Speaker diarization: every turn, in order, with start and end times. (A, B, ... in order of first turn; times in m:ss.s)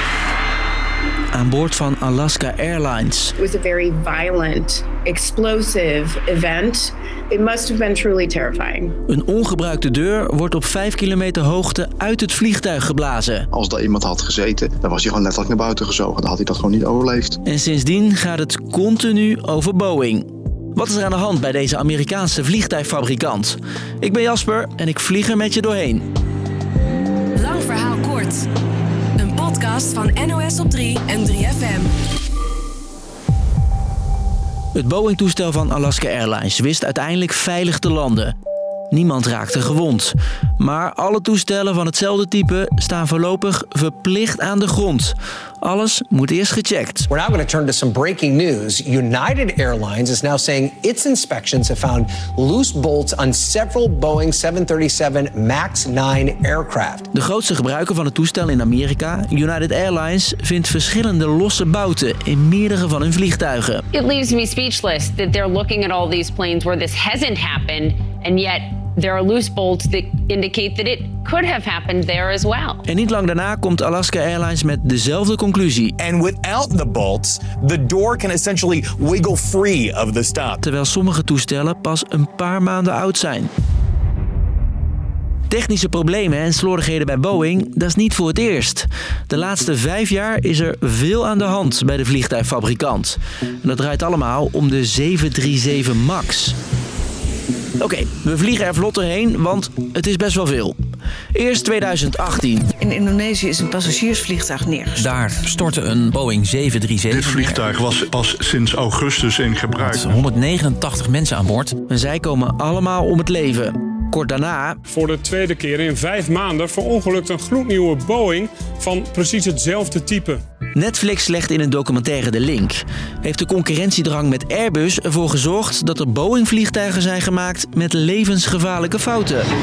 0:01.3-0:03.3 A
0:03.4-0:08.9 B
0:09.1-0:13.4 A
0:13.5-0:17.4 C
0:17.4-0:26.1 A
0:27.3-0:28.4 D
0:29.2-0:31.9 D
0:34.7-0:38.3 A
0:38.9-0:47.1 A
0:47.1-0:57.1 E
0:57.1-1:03.8 A
1:03.9-1:12.8 F
1:12.8-1:15.9 A
1:16.0-1:20.6 G
1:20.6-1:23.5 A
1:25.5-1:36.6 A
1:37.8-1:40.8 A
1:41.3-1:42.6 A
1:42.8-1:45.1 H
1:45.2-1:47.5 I
1:47.1-1:50.1 J
1:50.0-1:51.7 I
1:51.9-1:54.8 A
1:54.9-2:00.4 K
2:00.8-2:09.5 A